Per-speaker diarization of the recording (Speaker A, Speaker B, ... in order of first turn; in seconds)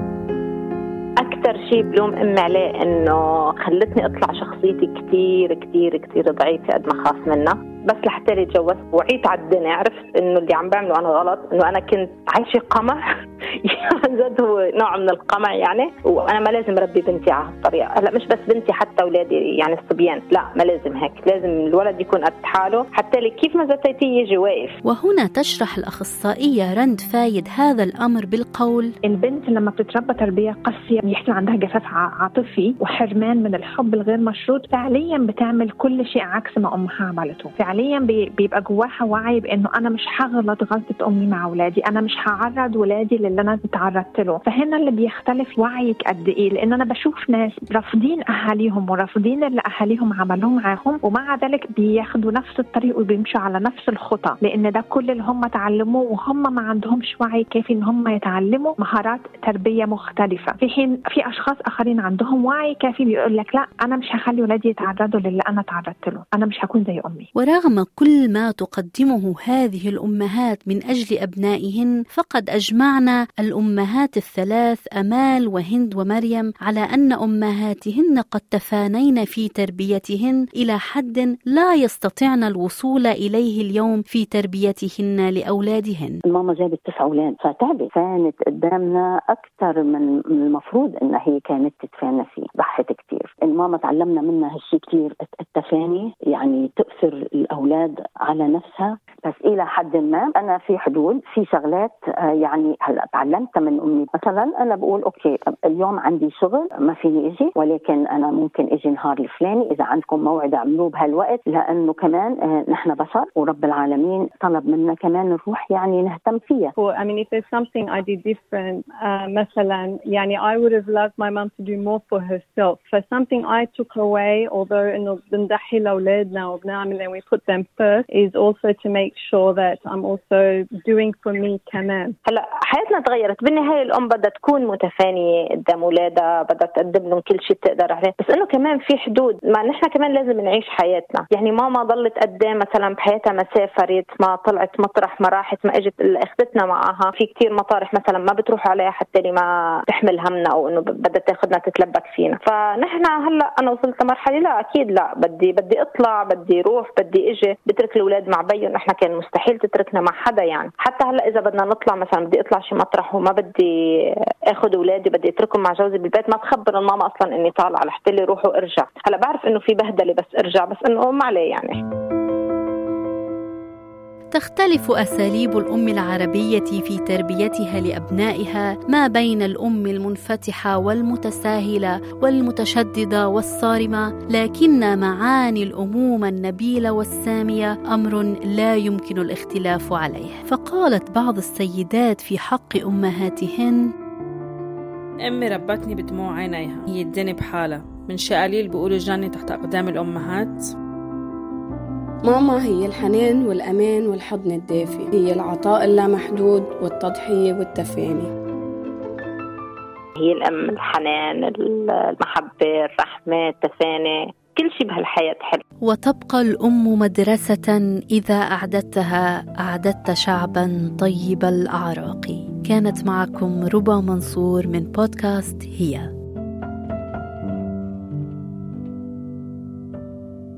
Speaker A: 1.2-24.8, 132.3-163.7, 164.5-171.8, 210.2-215.6
Speaker B: 24.9-28.9, 67.4-86.2, 174.3-193.8, 215.9-226.1
Speaker C: 29.1-67.3
Speaker D: 86.3-116.7
Speaker E: 116.8-132.1
Speaker F: 195.2-200.7
Speaker G: 202.2-208.3